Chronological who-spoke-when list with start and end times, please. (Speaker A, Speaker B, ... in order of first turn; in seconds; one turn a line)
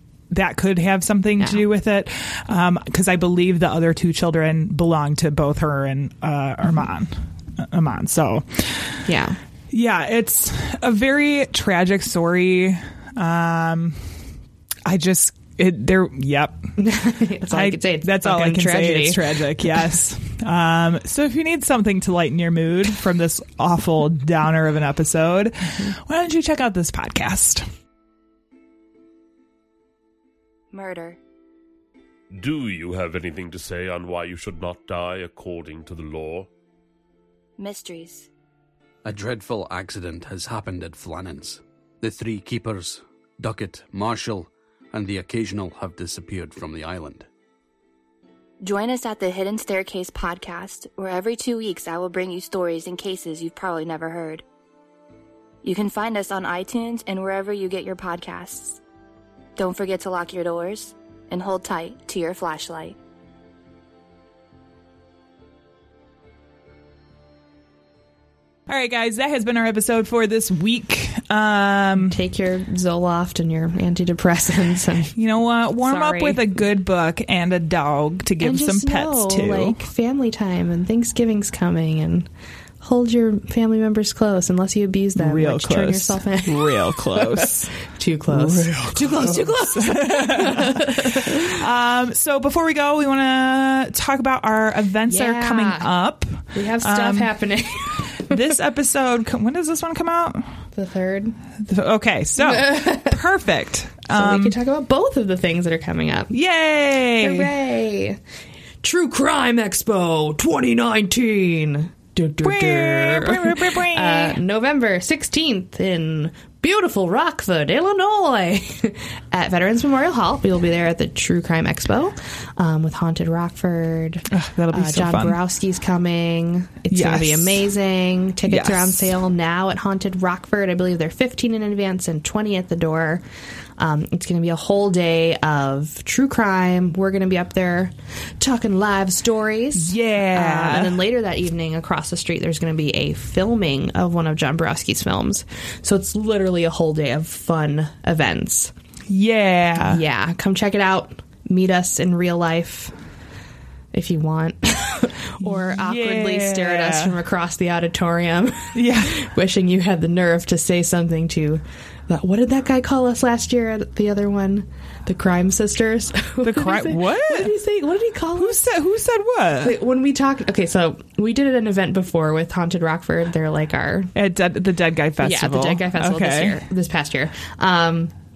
Speaker A: 0.3-8.9
Speaker B: 9.1-9.4
Speaker A: 9.7-14.0
Speaker A: 14.8-16.6
Speaker B: 16.8-19.7
Speaker A: 17.5-27.6
Speaker C: 30.7-31.2
Speaker D: 32.3-36.5
Speaker C: 37.6-38.3
Speaker E: 39.0-47.3
Speaker C: 48.6-54.4
Speaker C: 55.6-58.8
Speaker C: 59.5-63.0
Speaker A: 68.7-72.2
Speaker B: 72.0-75.1
Speaker A: 75.2-79.8
Speaker B: 75.8-76.5
Speaker B: 78.4-82.3
Speaker B: 82.8-91.5
Speaker A: 85.2-87.7
Speaker A: 88.3-97.3
Speaker B: 95.1-95.9
Speaker B: 96.5-98.4
Speaker A: 98.2-100.5
Speaker B: 100.8-101.3
Speaker A: 101.6-104.5
Speaker B: 102.4-103.2
Speaker B: 104.1-106.3
Speaker A: 106.3-107.5
Speaker B: 107.2-108.2
Speaker B: 108.8-133.2
Speaker A: 112.4-114.4
Speaker A: 124.3-125.4
Speaker A: 126.9-127.7
Speaker A: 128.4-129.1
Speaker B: 133.8-148.7
Speaker A: 139.7-141.0
Speaker A: 149.1-150.0
Speaker B: 149.8-152.9
Speaker B: 153.9-168.6
Speaker A: 155.4-157.1
Speaker A: 158.7-159.2
Speaker A: 166.4-167.6
Speaker A: 168.3-169.8
Speaker B: 169.6-174.1
Speaker A: 174.1-176.6
Speaker B: 175.2-178.1